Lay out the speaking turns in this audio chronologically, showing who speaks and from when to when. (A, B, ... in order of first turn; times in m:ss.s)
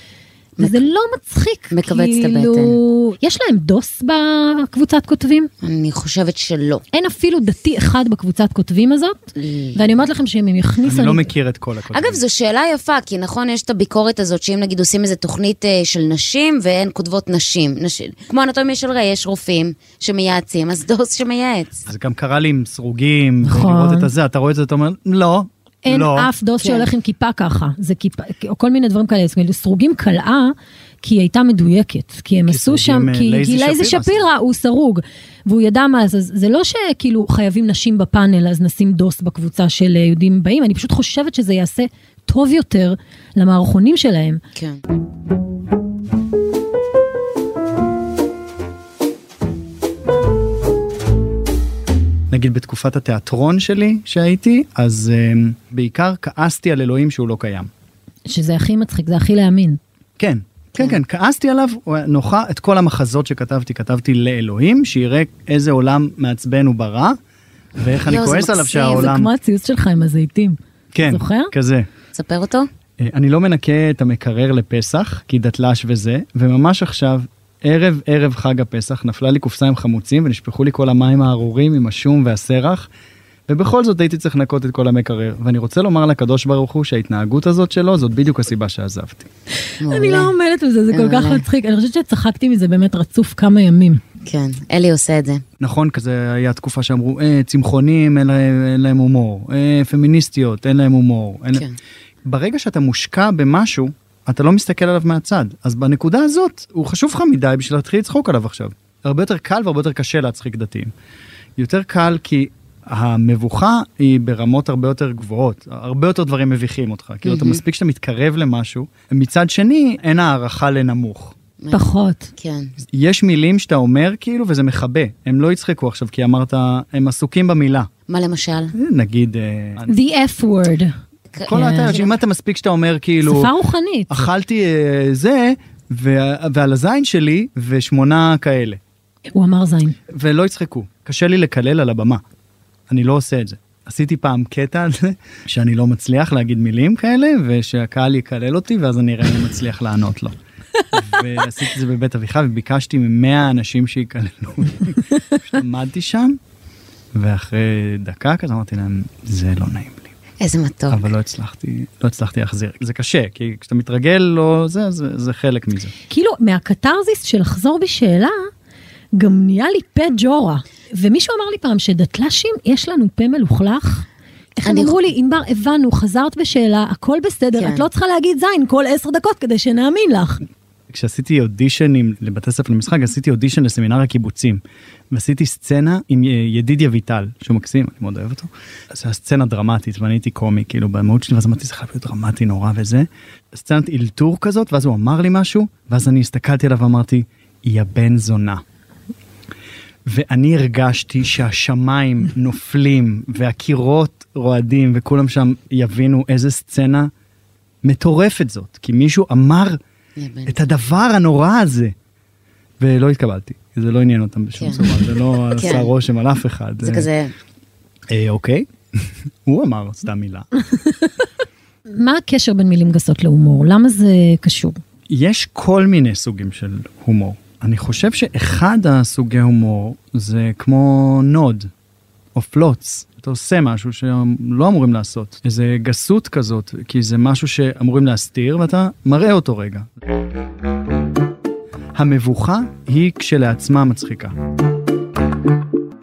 0:00.6-0:00.9 A
0:00.6-0:05.5 B
0:01.7-0:02.8 A
0:05.6-0:06.8 A
0:06.9-0:11.3 B
0:09.4-0:10.0 A
0:10.8-0:12.2 C
0:11.9-0:21.9 A
0:21.9-0:26.3 C
0:23.4-0:24.1 B
0:25.8-0:44.4 B
0:26.6-0:26.9 A
0:32.5-0:34.2 C
0:44.5-0:44.8 A
0:52.3-0:57.7 C
0:58.3-0:59.8 B
1:00.2-1:07.2 C
1:07.8-1:09.3 C
1:08.1-1:09.1 A
1:08.7-1:11.5 B
1:10.9-1:11.9 C
1:12.1-1:12.7 A
1:13.0-1:22.9 C
1:23.5-1:29.3 C
1:29.8-1:34.0 B
1:29.8-1:30.3 A
1:30.9-1:31.4 A
1:34.2-1:35.4 A
1:35.6-1:41.7 C
1:42.2-1:50.9 C
1:51.6-2:01.3 C
1:57.2-1:57.6 A
2:01.6-2:02.7 A
2:01.7-2:02.3 B
2:02.8-2:07.9 C
2:08.1-2:08.7 A
2:08.7-2:09.9 C
2:09.9-2:11.0 B
2:11.3-2:12.2 A
2:11.4-2:13.5 C
2:11.5-2:12.0 B
2:13.2-2:14.3 B
2:14.1-2:18.8 C
2:19.3-2:20.0 B
2:20.1-2:22.2 C
2:22.9-2:30.4 C
2:30.9-2:36.4 C
2:37.1-2:40.1 C
2:40.4-2:41.0 A
2:40.9-2:45.9 C
2:46.1-2:48.5 B
2:49.1-3:00.4 B
2:54.6-2:55.0 A
2:57.6-2:57.9 A
3:00.9-3:18.6 C
3:20.0-3:27.1 C
3:27.8-3:29.8 C
3:30.2-3:30.6 A
3:30.4-3:31.9 C
3:32.8-3:37.1 C
3:34.6-3:34.9 A
3:35.5-3:35.9 A
3:36.8-3:37.3 A
3:38.1-3:40.5 C
3:41.9-3:44.8 B
3:45.1-3:51.7 C
3:52.3-3:59.9 C
4:01.9-4:04.3 C